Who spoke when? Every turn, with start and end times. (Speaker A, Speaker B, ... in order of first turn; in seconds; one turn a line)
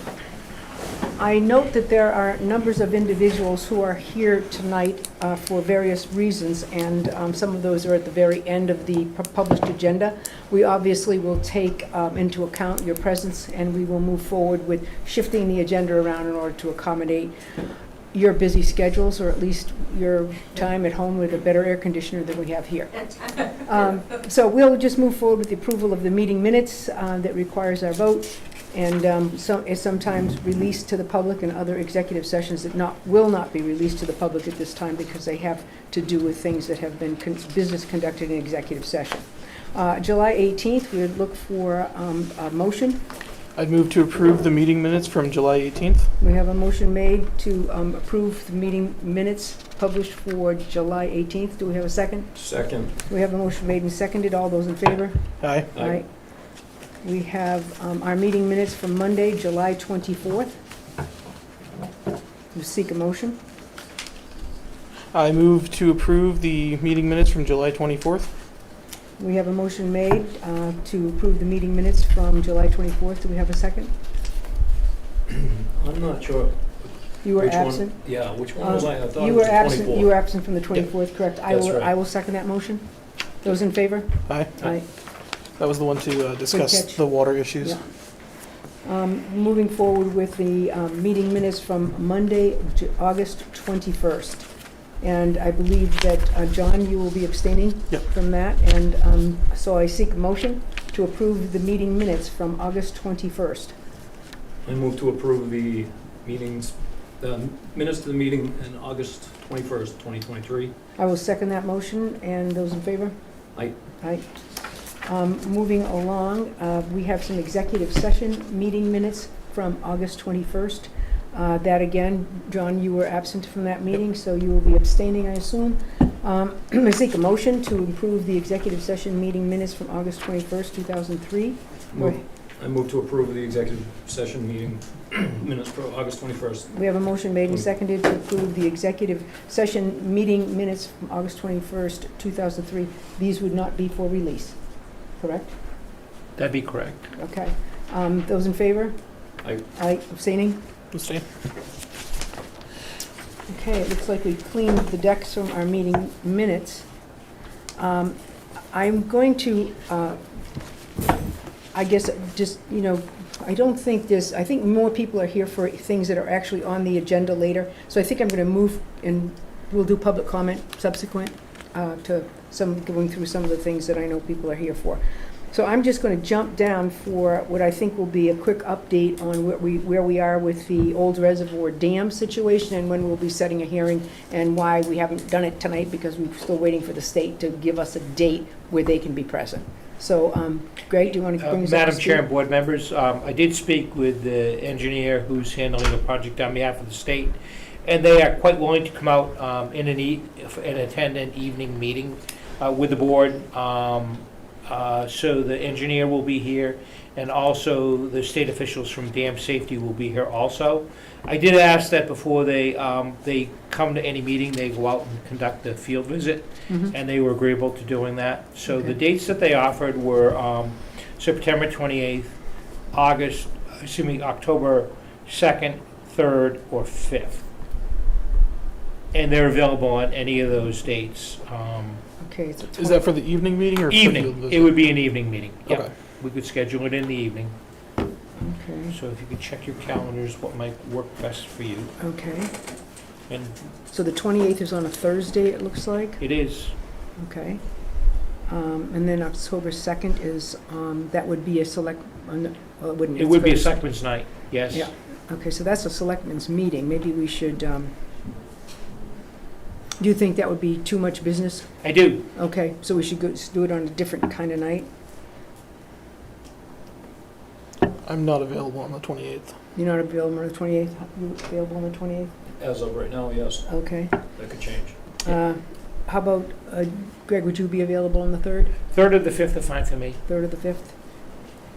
Speaker A: 1.2-17.3
Speaker A: 18.1-43.0
Speaker B: 43.5-46.1
Speaker A: 46.2-52.3
Speaker C: 52.3-53.0
Speaker A: 53.1-56.1
Speaker B: 55.4-55.7
Speaker C: 55.7-56.0
Speaker A: 57.0-60.5
Speaker A: 62.5-63.4
Speaker B: 65.1-68.3
Speaker A: 69.2-73.9
Speaker C: 75.3-80.2
Speaker A: 77.2-82.8
Speaker C: 81.5-81.9
Speaker A: 83.4-84.8
Speaker B: 84.3-84.5
Speaker B: 85.6-87.8
Speaker A: 86.5-87.8
Speaker A: 88.8-94.5
Speaker A: 95.0-103.7
Speaker C: 104.6-110.7
Speaker A: 111.0-113.2
Speaker A: 114.0-114.3
Speaker A: 115.0-132.2
Speaker C: 131.9-136.7
Speaker A: 136.7-144.6
Speaker A: 145.2-145.5
Speaker D: 146.3-147.1
Speaker A: 147.1-148.9
Speaker A: 149.7-150.6
Speaker B: 150.9-151.2
Speaker A: 153.5-156.8
Speaker A: 157.8-158.2
Speaker A: 158.7-160.2
Speaker A: 161.7-175.0
Speaker A: 175.5-192.2
Speaker D: 191.3-222.3
Speaker A: 218.7-218.9
Speaker D: 222.9-227.4
Speaker D: 229.1-232.0
Speaker A: 232.2-233.1
Speaker B: 232.8-234.7
Speaker D: 233.9-237.5
Speaker A: 238.4-238.9
Speaker D: 238.9-241.9
Speaker A: 242.0-242.5
Speaker D: 243.3-243.6
Speaker A: 243.9-246.2
Speaker D: 246.2-246.7
Speaker A: 247.2-247.6
Speaker A: 248.5-253.8
Speaker D: 253.2-254.9
Speaker A: 254.7-257.9
Speaker A: 260.0-264.9
Speaker D: 261.8-262.2
Speaker B: 268.0-269.5
Speaker A: 269.8-272.3
Speaker C: 272.6-273.7
Speaker A: 273.6-274.1
Speaker C: 274.3-275.0
Speaker A: 275.2-278.7
Speaker D: 278.9-280.2
Speaker A: 280.3-280.9